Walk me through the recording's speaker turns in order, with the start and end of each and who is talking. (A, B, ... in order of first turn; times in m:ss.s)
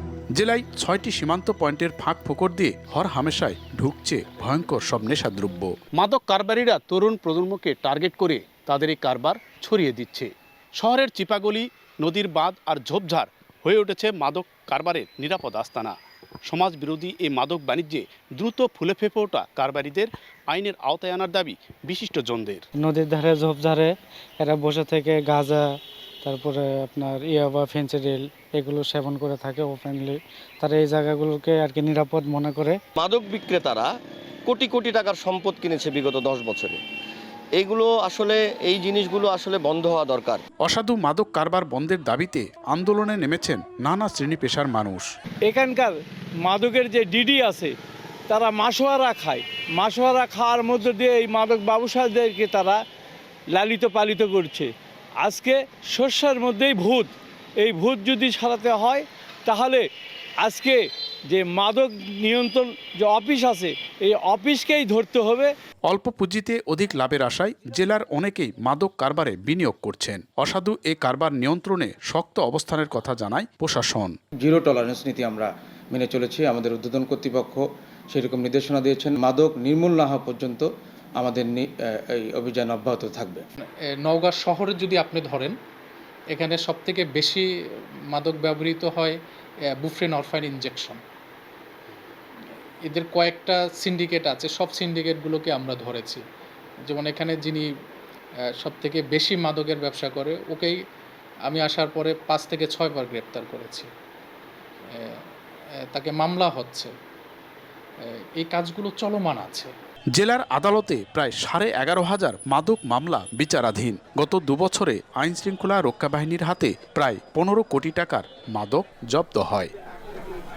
0:00.3-0:16.0 A
0:16.5-0:22.6 A
0:22.8-0:25.6 B
0:26.2-0:32.8 B
0:33.0-0:33.9 C
0:34.5-0:36.8 C
0:37.6-0:40.4 C
0:40.6-0:45.1 A
0:45.4-0:47.7 D
0:48.3-0:52.8 D
0:53.5-0:59.8 D
1:00.4-1:05.5 D
1:05.8-1:14.2 A
1:14.4-1:20.7 E
1:21.2-1:23.4 E
1:23.6-1:25.5 F
1:26.3-1:27.4 F
1:28.1-1:29.2 F
1:29.8-1:31.0 F
1:32.9-1:36.2 F
1:36.8-1:37.7 F
1:38.6-1:40.8 F
1:41.5-1:43.9 F
1:44.9-1:45.2 F
1:45.9-1:46.9 F
1:48.1-1:49.7 F
1:50.1-1:59.7 A